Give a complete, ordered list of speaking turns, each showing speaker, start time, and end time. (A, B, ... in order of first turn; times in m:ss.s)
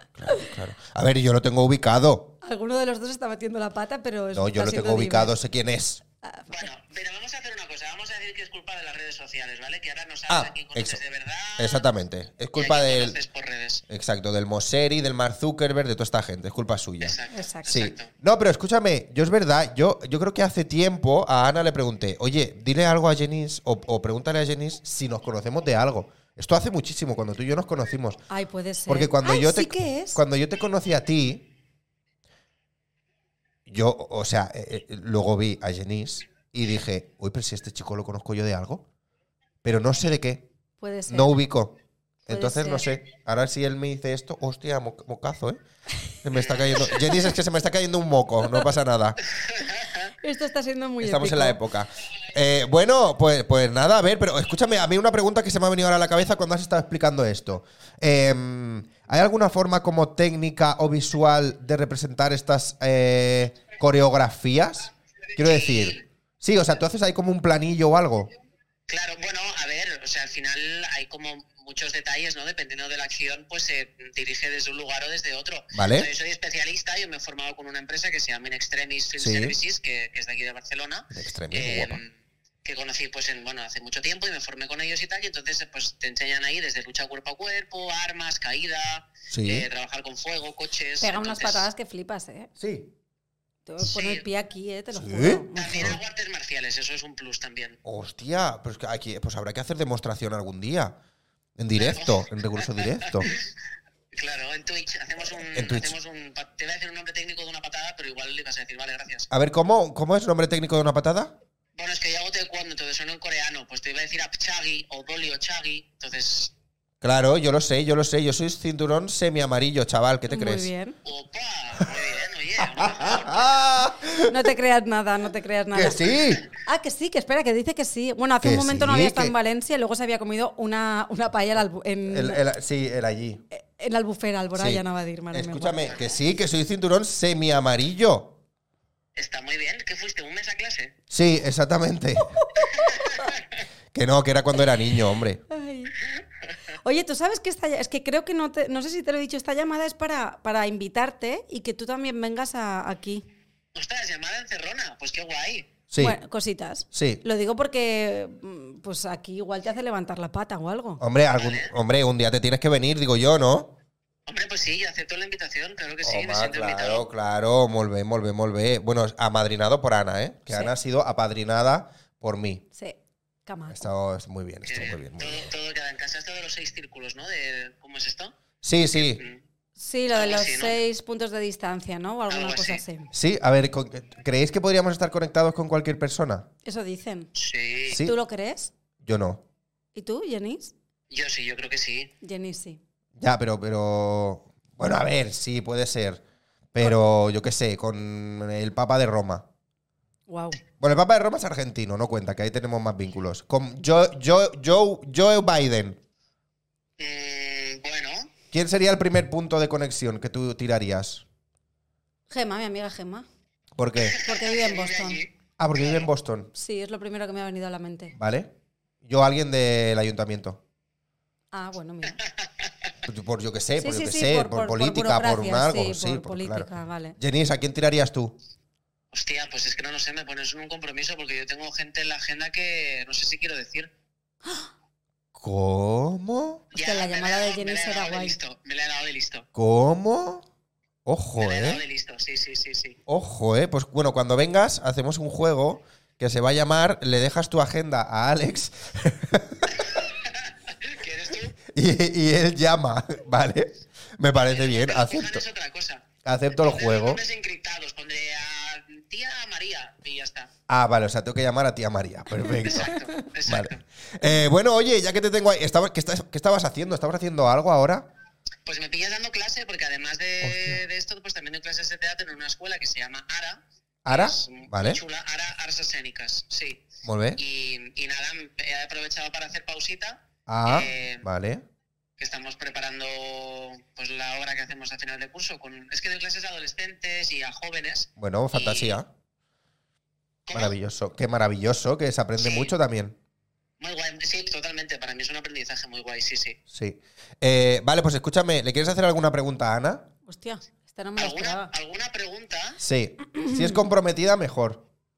0:00.1-0:02.4 A
0:02.4-0:05.4 B
0:04.3-0:06.0 A
0:06.2-0:06.7 B
0:06.5-0:11.9 C
0:10.3-0:11.0 A
0:11.6-0:13.2 A
0:12.6-0:13.8 C
0:13.9-0:17.2 A
0:17.0-0:18.1 C
0:17.3-0:17.8 B
0:17.7-0:28.2 A
0:28.3-0:30.2 B
0:28.9-0:31.5 A
0:33.7-0:38.9 A
0:39.6-0:40.5 A
0:40.8-0:41.4 B
0:41.1-0:49.3 A
0:42.3-0:42.9 B
0:46.3-0:47.0 C
0:49.6-0:50.1 C
0:50.2-0:51.6 B
0:51.0-1:08.3 A
1:05.4-1:06.0 C
1:08.9-1:22.1 C
1:15.7-1:16.1 A
1:19.2-1:19.5 A
1:21.1-1:22.0 A
1:22.6-1:31.7 C
1:29.3-1:29.7 A
1:31.0-1:32.5 B
1:32.6-1:32.9 A
1:33.7-1:36.0 B
1:33.8-1:34.2 C
1:34.9-1:36.0 A
1:35.5-1:37.8 C
1:37.8-1:41.0 A
1:41.6-1:43.3 A
1:41.8-1:43.4 C
1:44.1-1:49.3 C
1:45.5-1:45.9 A
1:49.3-1:51.3 A
1:51.8-1:56.5 C
1:57.0-2:00.7 A
2:00.3-2:01.0 B
2:01.0-2:03.5 C
2:02.6-2:04.4 A
2:04.3-2:12.4 B
2:05.7-2:06.4 A
2:08.4-2:09.3 A
2:12.1-2:13.4 A
2:13.5-2:15.8 B
2:14.6-2:18.4 A
2:15.8-2:16.2 C
2:19.2-2:20.9 C
2:21.1-2:22.4 A
2:22.4-2:23.3 B
2:22.7-2:23.5 C
2:23.9-2:25.4 A
2:25.5-2:26.0 B
2:26.8-2:33.3 B
2:33.7-2:35.7 C
2:35.9-2:36.2 A
2:36.0-2:41.0 B
2:36.9-2:37.2 A
2:41.0-2:43.7 A
2:41.3-2:41.7 C
2:44.3-2:47.1 C
2:46.0-2:52.6 A
2:52.7-2:53.9 B
2:53.7-2:55.5 A
2:54.7-2:58.4 C
2:58.6-2:59.2 A
2:58.9-2:59.4 C
2:59.8-3:03.1 B
3:00.1-3:00.8 C
3:02.3-3:02.8 C
3:03.1-3:06.5 A
3:06.6-3:07.3 B
3:07.4-3:08.0 C
3:07.9-3:08.2 A
3:08.0-3:08.7 B
3:09.0-3:09.4 A
3:10.0-3:10.7 B
3:11.1-3:12.1 C
3:12.2-3:12.8 B
3:13.2-3:16.2 A
3:16.7-3:19.5 A
3:20.3-3:20.6 B
3:20.8-3:26.0 A
3:27.0-3:28.3 C
3:28.5-3:31.2 A
3:32.3-3:33.3 B
3:33.8-3:34.2 A
3:34.0-3:36.1 C
3:34.2-3:35.2 B
3:35.6-3:36.5 A
3:36.6-3:38.2 B
3:38.2-3:40.6 A
3:41.5-3:42.2 B
3:42.2-3:42.7 C
3:43.0-3:48.4 A
3:43.8-3:47.2 B
3:49.1-3:53.9 C
3:54.4-3:54.7 B
3:55.4-3:56.7 A
3:56.7-3:59.5 C
3:56.7-3:58.4 B
3:59.6-4:00.4 A
4:01.1-4:01.8 A
4:01.4-4:03.0 C
4:03.1-4:10.0 A
4:09.8-4:11.6 C
4:11.7-4:15.4 A
4:14.4-4:20.5 C
4:16.2-4:17.2 A
4:20.7-4:28.1 A
4:22.5-4:23.0 B
4:22.6-4:23.8 C
4:28.7-4:41.2 C
4:30.4-4:30.8 A
4:34.0-4:35.0 A
4:37.0-4:37.4 A
4:40.5-4:41.6 A
4:42.2-4:49.0 C
4:48.2-4:49.1 A
4:50.5-4:50.8 C
4:50.5-4:53.2 A
4:52.4-4:52.7 C
4:53.8-4:56.6 C
4:56.7-5:00.1 A
5:00.3-5:01.7 B
5:01.2-5:02.8 C
5:02.8-5:04.9 A
5:03.4-5:03.9 B